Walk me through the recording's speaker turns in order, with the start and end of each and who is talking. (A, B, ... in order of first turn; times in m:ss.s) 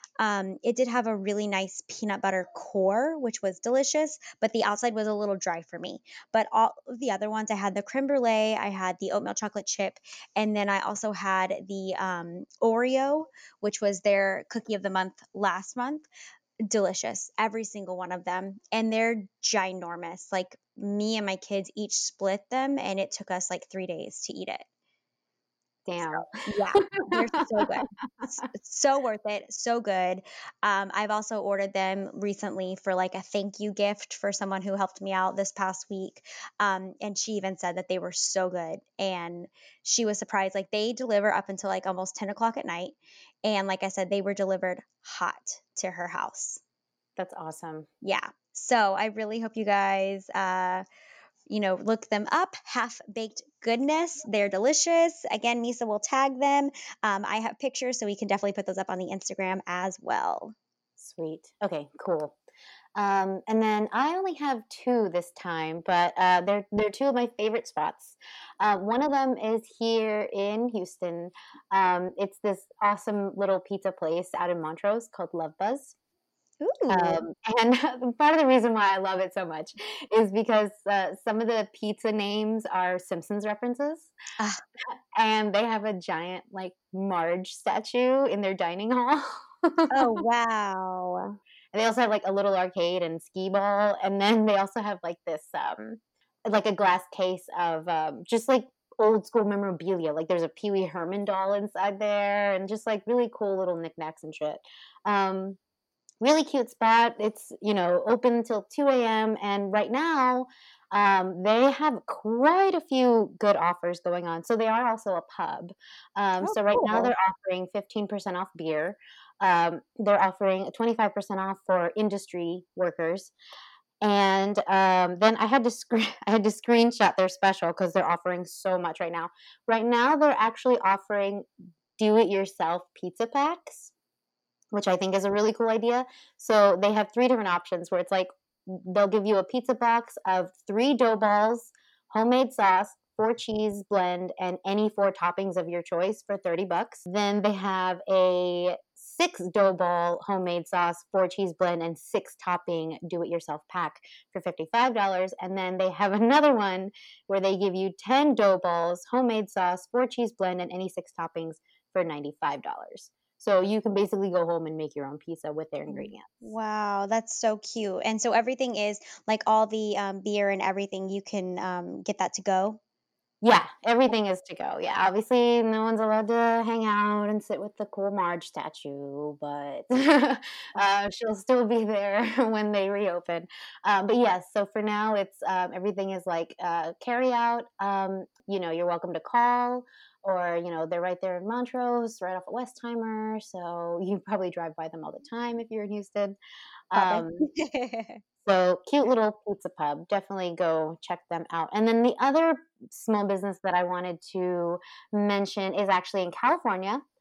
0:00.2-0:16.1 A
0:16.6-0:24.7 A
0:25.9-0:27.9 B
0:26.0-0:46.6 A
0:47.2-0:47.9 B
0:48.0-0:50.8 A
0:51.5-1:00.6 A
1:01.0-1:02.4 B
1:03.0-1:16.0 B
1:16.6-1:17.2 A
1:16.9-1:24.1 B
1:24.9-1:30.2 B
1:29.9-1:31.4 A
1:31.7-1:45.6 B
1:46.2-2:03.3 B
1:56.4-1:57.1 A
2:04.0-2:13.9 B
2:14.7-2:46.5 B
2:45.9-2:52.8 A
2:53.4-3:16.4 B
3:16.9-3:17.4 B
3:16.9-3:18.2 A
3:18.4-3:27.0 B